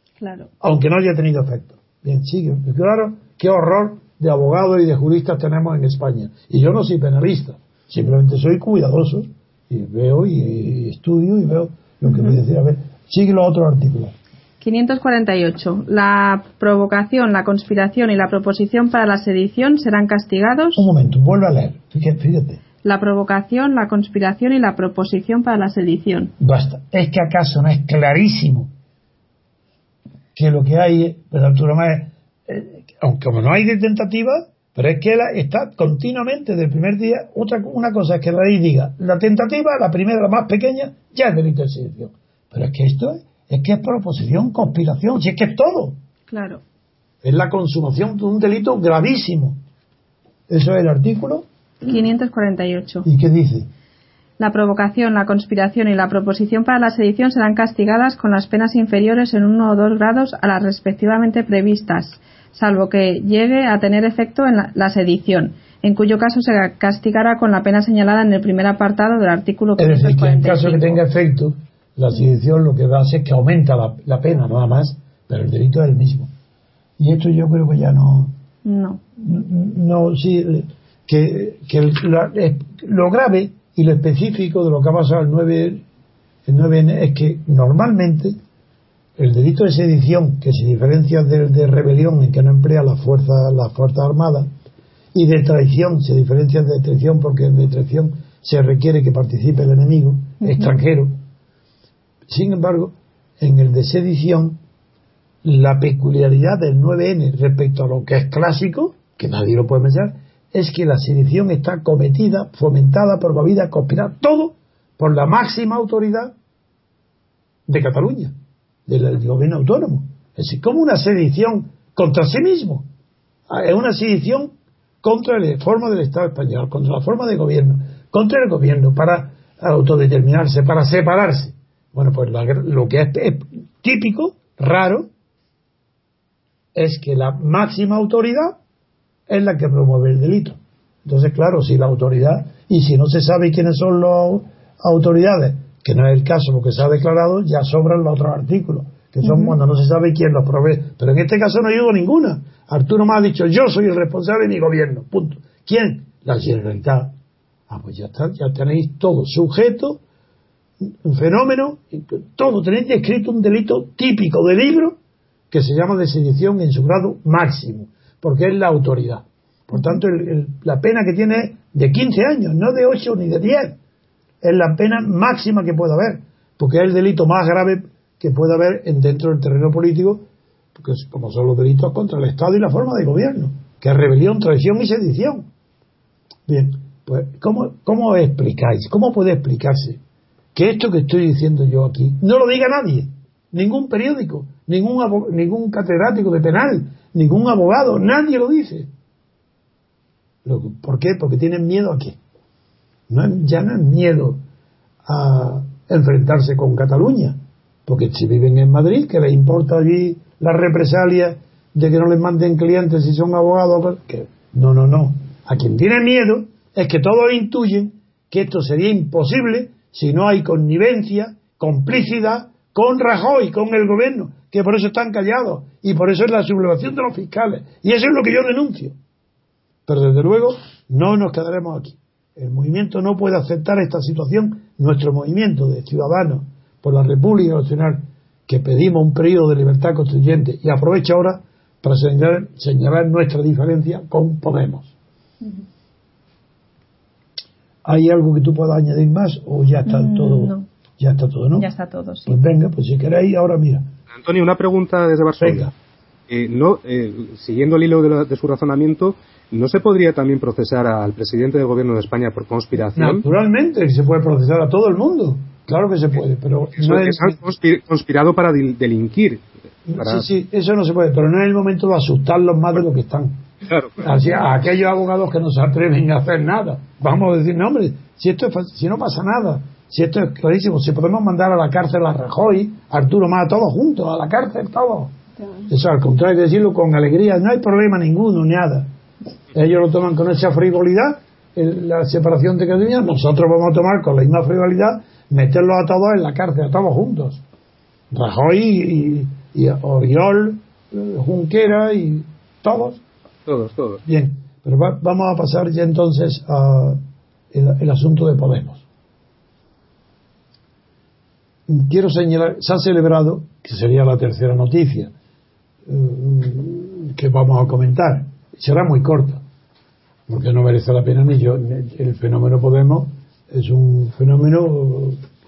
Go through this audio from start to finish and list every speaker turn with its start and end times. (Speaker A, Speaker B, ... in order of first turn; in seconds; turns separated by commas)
Speaker A: 0.2-0.5, Speaker B: 0.6-14.2, Speaker A: 14.6-20.9, Speaker B: 20.8-22.6, Speaker A: 22.8-26.3, Speaker B: 26.4-28.7, Speaker B: 30.4-46.0, Speaker A: 46.3-46.6, Speaker B: 47.2-49.6, Speaker B: 50.5-51.5, Speaker A: 51.8-53.1, Speaker B: 53.0-53.7, Speaker A: 54.4-71.0, Speaker B: 69.8-76.3, Speaker B: 77.0-78.3, Speaker A: 78.7-79.0, Speaker B: 79.2-85.8, Speaker B: 86.5-88.4, Speaker B: 89.2-94.5, Speaker B: 95.1-101.2, Speaker A: 100.4-100.7, Speaker B: 102.3-104.6, Speaker B: 105.4-116.3, Speaker B: 117.7-118.3, Speaker B: 118.9-122.9, Speaker B: 123.5-135.1, Speaker B: 136.8-138.6, Speaker B: 139.3-157.1, Speaker A: 149.2-149.6, Speaker B: 157.7-160.0, Speaker B: 160.8-165.0, Speaker B: 165.5-173.8, Speaker B: 174.4-185.5, Speaker B: 186.5-190.0, Speaker B: 190.5-198.9, Speaker B: 200.4-202.2, Speaker B: 203.1-204.4, Speaker B: 205.1-229.0, Speaker B: 229.9-244.9, Speaker B: 247.8-251.7, Speaker A: 249.9-250.7, Speaker A: 251.6-252.3, Speaker B: 252.3-253.9, Speaker C: 254.1-255.7, Speaker B: 255.4-255.7, Speaker C: 256.3-263.2, Speaker B: 262.9-267.4, Speaker C: 266.8-270.3, Speaker B: 269.9-273.4, Speaker C: 273.6-274.1, Speaker B: 274.0-285.1, Speaker B: 285.7-288.9, Speaker B: 289.5-297.4, Speaker B: 298.1-303.0, Speaker C: 303.5-304.0, Speaker B: 304.1-307.0, Speaker B: 307.5-308.8, Speaker B: 311.7-315.1, Speaker B: 315.9-319.4, Speaker B: 320.3-325.2